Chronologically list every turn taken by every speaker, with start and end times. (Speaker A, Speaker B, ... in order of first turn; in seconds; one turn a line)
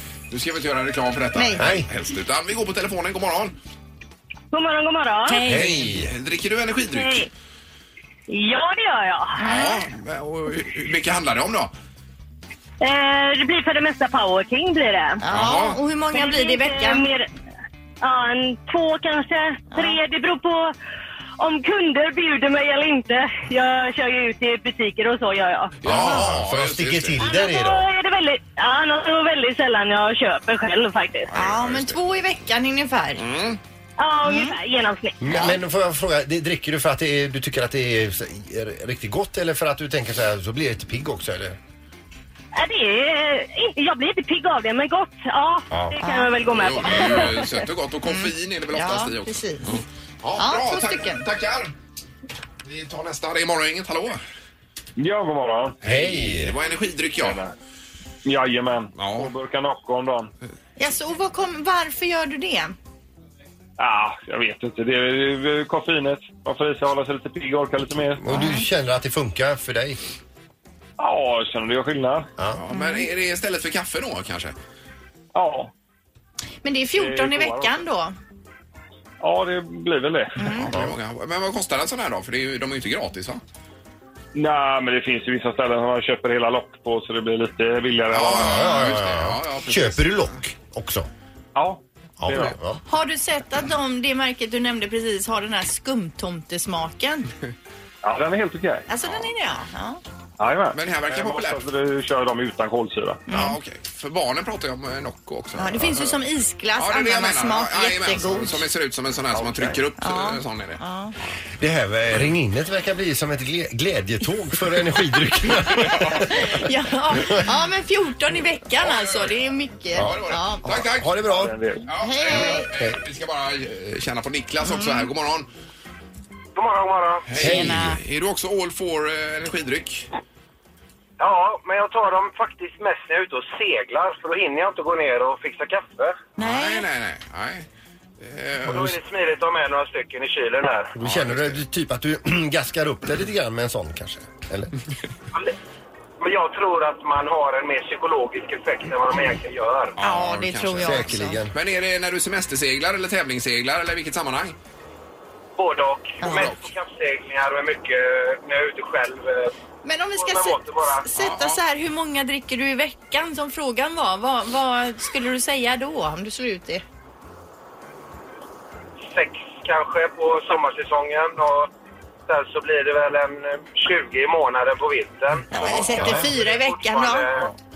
Speaker A: 0.3-3.6
Speaker B: 1.4-1.7
Speaker C: 1.6-1.9
Speaker D: 4.5-5.4
Speaker B: 5.3-5.7
Speaker C: 5.5-6.1
Speaker A: 5.5-7.2
Speaker D: 6.9-7.3
Speaker D: 8.3-9.4
Speaker B: 9.4-9.8
Speaker A: 9.4-11.7
Speaker D: 12.8-15.2
Speaker B: 15.2-17.1
Speaker A: 15.3-15.8
Speaker D: 16.1-17.3
Speaker D: 18.0-20.7
Speaker B: 19.7-20.0
Speaker D: 21.4-25.8
Speaker A: 25.8-27.2
Speaker C: 25.8-27.9
Speaker D: 27.2-31.3
Speaker A: 31.3-32.0
Speaker B: 31.4-33.2
Speaker A: 33.2-33.6
Speaker D: 34.0-35.2
Speaker B: 34.2-34.6
Speaker C: 35.2-41.6
Speaker D: 42.5-47.5
Speaker C: 45.7-46.0
Speaker B: 46.0-46.3
Speaker A: 46.5-51.7
Speaker B: 48.0-49.8
Speaker B: 50.4-51.2
Speaker A: 52.6-54.2
Speaker E: 55.0-55.8
Speaker C: 55.8-56.6
Speaker A: 55.8-57.4
Speaker E: 57.2-57.5
Speaker E: 58.2-60.3
Speaker A: 59.0-59.3
Speaker B: 60.8-62.8
Speaker E: 63.8-68.2
Speaker C: 68.2-70.0
Speaker B: 68.3-68.7
Speaker E: 71.0-72.3
Speaker A: 72.5-74.5
Speaker B: 72.7-73.1
Speaker E: 75.3-75.7
Speaker B: 76.6-78.2
Speaker E: 77.0-77.8
Speaker E: 79.2-80.4
Speaker B: 80.4-80.7
Speaker A: 80.5-83.4
Speaker E: 84.3-88.7
Speaker A: 88.1-90.4
Speaker C: 88.3-91.1
Speaker E: 91.5-92.6
Speaker C: 92.2-92.8
Speaker B: 92.9-97.3
Speaker E: 98.0-98.9
Speaker B: 98.9-100.0
Speaker E: 100.4-103.2
Speaker A: 100.7-101.6
Speaker B: 103.3-103.6
Speaker A: 103.3-106.2
Speaker B: 105.6-108.6
Speaker A: 106.8-110.8
Speaker E: 109.4-109.8
Speaker B: 110.0-111.1
Speaker C: 111.6-116.6
Speaker A: 115.8-116.2
Speaker B: 116.3-120.7
Speaker A: 118.8-119.4
Speaker A: 119.9-121.3
Speaker C: 120.0-121.6
Speaker E: 121.3-121.8
Speaker A: 121.9-125.5
Speaker B: 122.0-122.7
Speaker B: 124.7-125.1
Speaker F: 126.5-127.3
Speaker A: 127.3-130.1
Speaker C: 127.4-128.0
Speaker B: 127.4-128.0
Speaker F: 131.2-136.3
Speaker B: 136.4-136.9
Speaker A: 136.4-137.7
Speaker A: 138.2-138.9
Speaker F: 138.7-140.9
Speaker C: 141.0-144.7
Speaker A: 141.0-141.6
Speaker F: 146.2-150.0
Speaker A: 150.0-154.6
Speaker B: 150.0-151.4
Speaker C: 150.8-151.6
Speaker F: 155.6-159.5
Speaker B: 156.2-156.5
Speaker A: 156.2-156.7
Speaker B: 159.8-166.8
Speaker F: 160.2-161.1
Speaker A: 161.2-161.6
Speaker F: 169.1-171.7
Speaker F: 172.3-177.5
Speaker A: 175.5-176.2
Speaker B: 175.5-177.3
Speaker C: 175.9-176.3